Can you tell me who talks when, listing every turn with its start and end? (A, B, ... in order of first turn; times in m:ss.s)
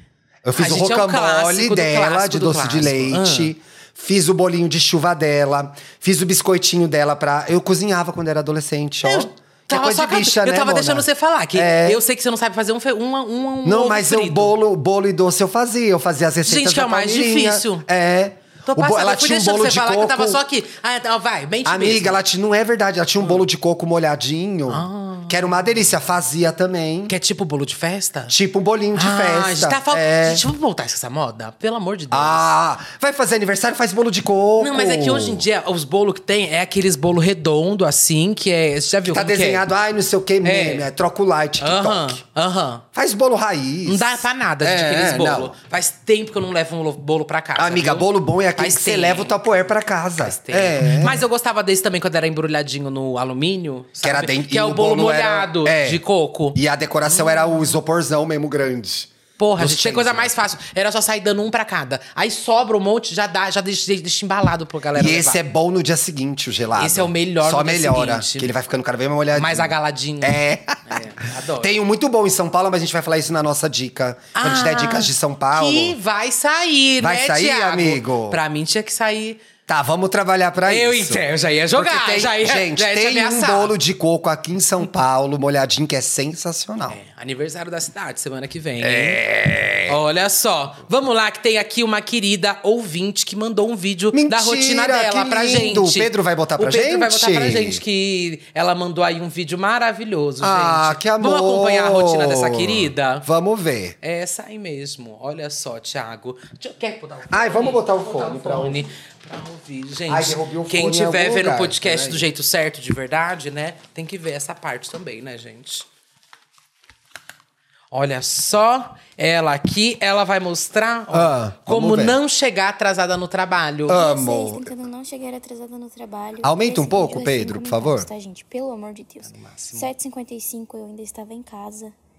0:00.4-0:12.0 A
0:00.6-0:03.5 B
0:09.0-0:14.5 B
0:13.6-0:20.4 A
0:16.4-0:17.9 B
0:18.7-0:22.2 B
0:21.6-0:27.1 A
0:24.7-0:25.4 B
0:27.1-0:28.3 B
0:28.3-0:30.4 A
0:29.0-0:32.5 B
0:32.1-0:35.5 A
0:34.6-0:39.6 B
0:39.1-0:42.2 A
0:40.4-0:40.9 B
0:41.6-0:42.8 B
0:42.9-0:45.5 A
0:43.8-0:49.4 B
0:47.6-0:51.3 A
0:50.2-0:57.7 B
0:54.0-0:56.0 A
0:56.5-1:00.4 A
0:59.4-1:05.4 B
1:04.9-1:16.0 A
1:06.8-1:08.5 B
1:09.3-1:11.8 B
1:14.4-1:19.4 B
1:17.0-1:18.4 A
1:19.7-1:27.0 A
1:20.6-1:23.7 B
1:26.9-1:29.2 B
1:28.8-1:30.0 A
1:29.9-1:43.3 B
1:34.1-1:37.8 A
1:40.4-1:44.0 A
1:44.0-1:55.9 B
1:47.3-1:48.8 A
1:50.1-1:52.3 A
1:57.9-2:04.0 B
2:01.1-2:02.2 A
2:03.9-2:04.7 A
2:03.9-2:11.9 C
2:06.4-2:08.1 A
2:09.3-2:09.9 B